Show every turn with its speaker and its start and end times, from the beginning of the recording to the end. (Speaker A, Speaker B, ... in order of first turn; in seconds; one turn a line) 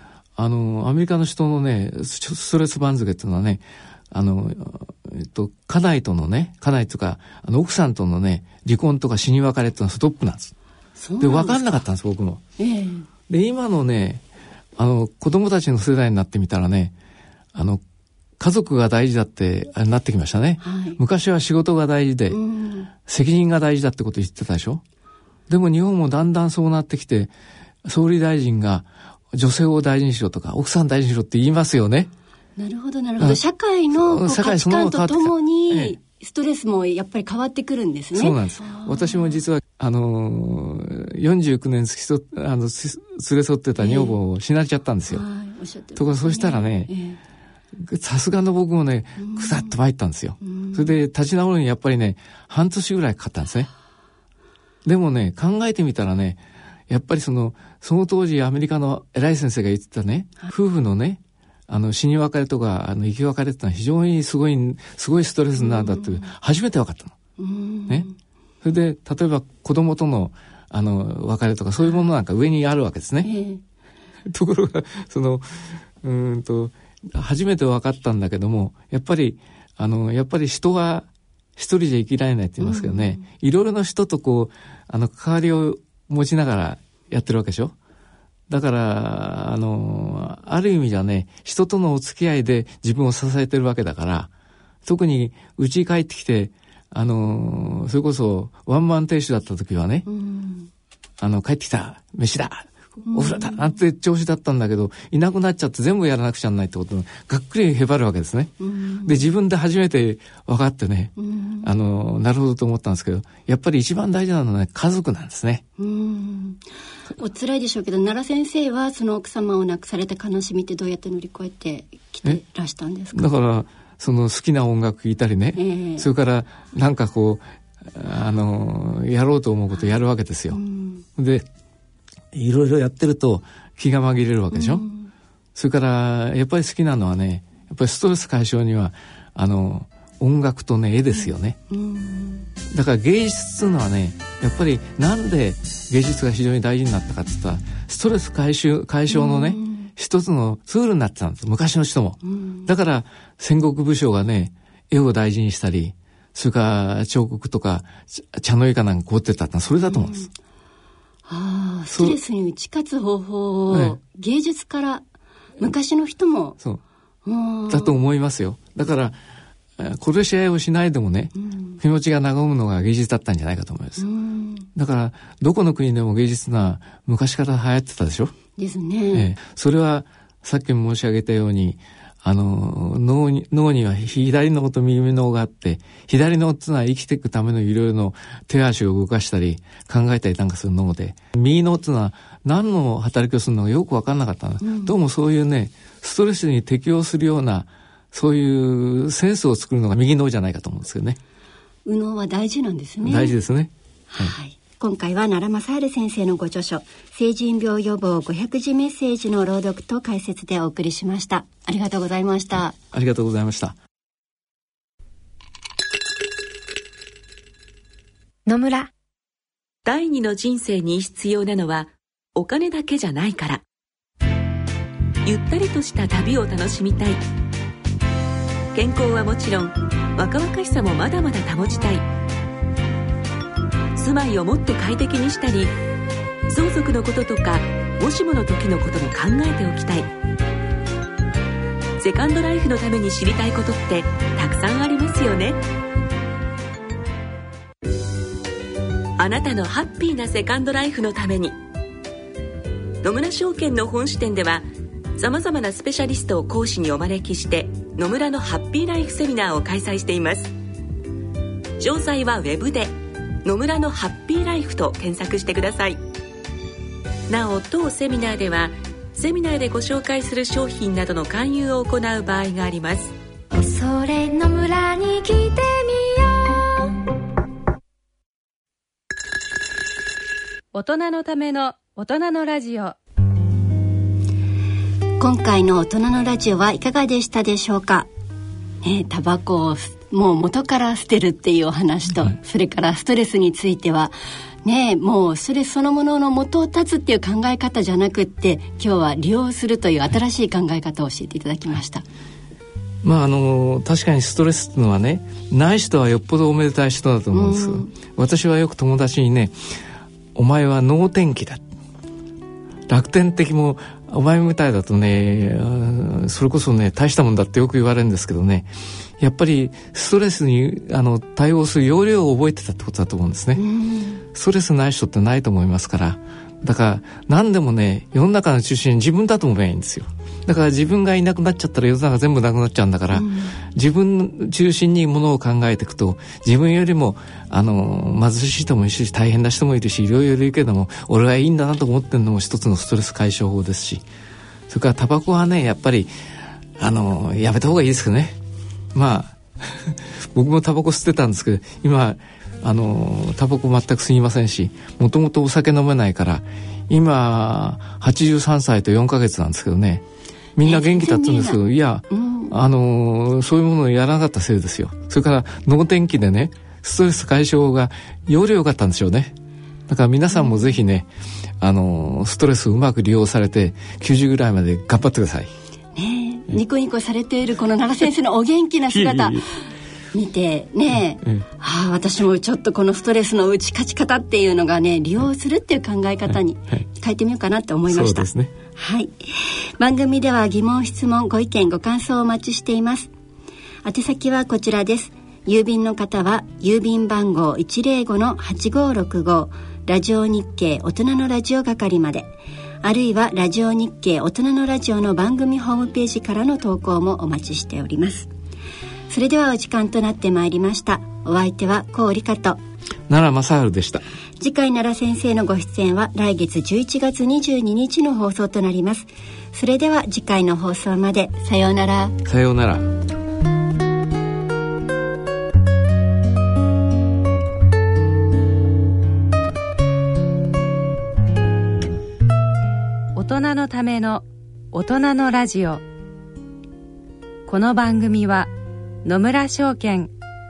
Speaker A: 0.4-10.5
Speaker B: 11.0-11.8
Speaker A: 11.2-12.4
Speaker B: 12.6-13.1
Speaker A: 13.3-14.2
Speaker A: 14.8-16.9
Speaker A: 17.5-17.8
Speaker A: 18.4-22.4
Speaker B: 20.6-21.0
Speaker B: 22.3-22.9
Speaker A: 22.9-24.8
Speaker A: 25.5-32.1
Speaker B: 32.6-39.4
Speaker A: 33.9-35.9
Speaker A: 38.1-45.2
Speaker B: 43.8-44.2
Speaker B: 45.1-47.2
Speaker A: 46.0-46.9
Speaker A: 47.7-53.7
Speaker B: 49.2-49.7
Speaker B: 50.4-51.0
Speaker A: 54.8-67.2
Speaker B: 65.6-66.3
Speaker B: 67.4-68.2
Speaker A: 68.6-73.3
Speaker B: 73.2-73.6
Speaker A: 74.2-87.7
Speaker B: 82.6-83.2
Speaker A: 88.5-94.3
Speaker A: 94.8-100.0
Speaker B: 100.0-100.7
Speaker A: 101.2-108.5
Speaker B: 103.1-103.6
Speaker B: 108.6-109.2
Speaker A: 109.0-115.6
Speaker B: 111.2-111.7
Speaker B: 115.8-116.6
Speaker B: 117.2-123.3
Speaker A: 123.1-130.6
Speaker B: 125.6-126.1
Speaker B: 130.5-131.0
Speaker A: 131.2-131.4
Speaker A: 132.3-134.8
Speaker B: 134.5-135.1
Speaker A: 135.5-141.6
Speaker B: 141.7-142.5
Speaker A: 142.7-160.3
Speaker B: 149.1-149.9
Speaker B: 152.2-152.7
Speaker B: 159.8-160.3
Speaker B: 161.3-165.0
Speaker A: 161.9-162.2
Speaker A: 163.7-163.9
Speaker B: 165.6-166.6
Speaker B: 167.2-167.9
Speaker A: 167.7-169.2
Speaker A: 169.8-174.1
Speaker B: 171.4-171.8
Speaker B: 174.0-174.7
Speaker A: 174.7-178.3
Speaker B: 178.6-179.3
Speaker A: 179.1-201.2
Speaker B: 194.6-194.9
Speaker B: 201.8-203.3
Speaker A: 203.0-204.3
Speaker B: 204.1-212.8
Speaker A: 212.9-213.8
Speaker C: 218.4-218.9
Speaker D: 219.8-223.6
Speaker D: 225.2-227.2
Speaker D: 228.7-232.1
Speaker D: 233.9-235.7
Speaker D: 236.5-240.1
Speaker D: 242.0-245.6
Speaker D: 249.2-251.6
Speaker D: 253.0-260.5
Speaker D: 261.8-266.0
Speaker D: 267.3-273.1
Speaker C: 273.5-277.0
Speaker E: 280.7-282.9
Speaker B: 285.2-288.1
Speaker B: 288.8-294.1
Speaker B: 294.6-302.0
Speaker A: 303.0-309.5
Speaker B: 307.3-307.9
Speaker A: 310.3-311.6
Speaker A: 312.9-323.6
Speaker B: 323.5-324.2
Speaker A: 324.3-344.0
Speaker B: 333.1-333.6
Speaker A: 344.7-346.1
Speaker A: 346.8-348.4
Speaker A: 348.9-360.0
Speaker A: 360.6-369.4
Speaker B: 360.6-362.6
Speaker A: 369.9-375.5
Speaker B: 370.3-370.8
Speaker B: 375.9-379.5
Speaker A: 378.9-379.4
Speaker B: 380.1-393.1
Speaker A: 387.9-388.5
Speaker B: 393.8-402.3
Speaker B: 402.8-408.3
Speaker B: 409.1-412.6
Speaker A: 413.1-414.0
Speaker B: 414.4-422.2
Speaker A: 422.2-422.9
Speaker E: 433.1-435.8
Speaker E: 437.5-438.5
Speaker E: 439.0-440.1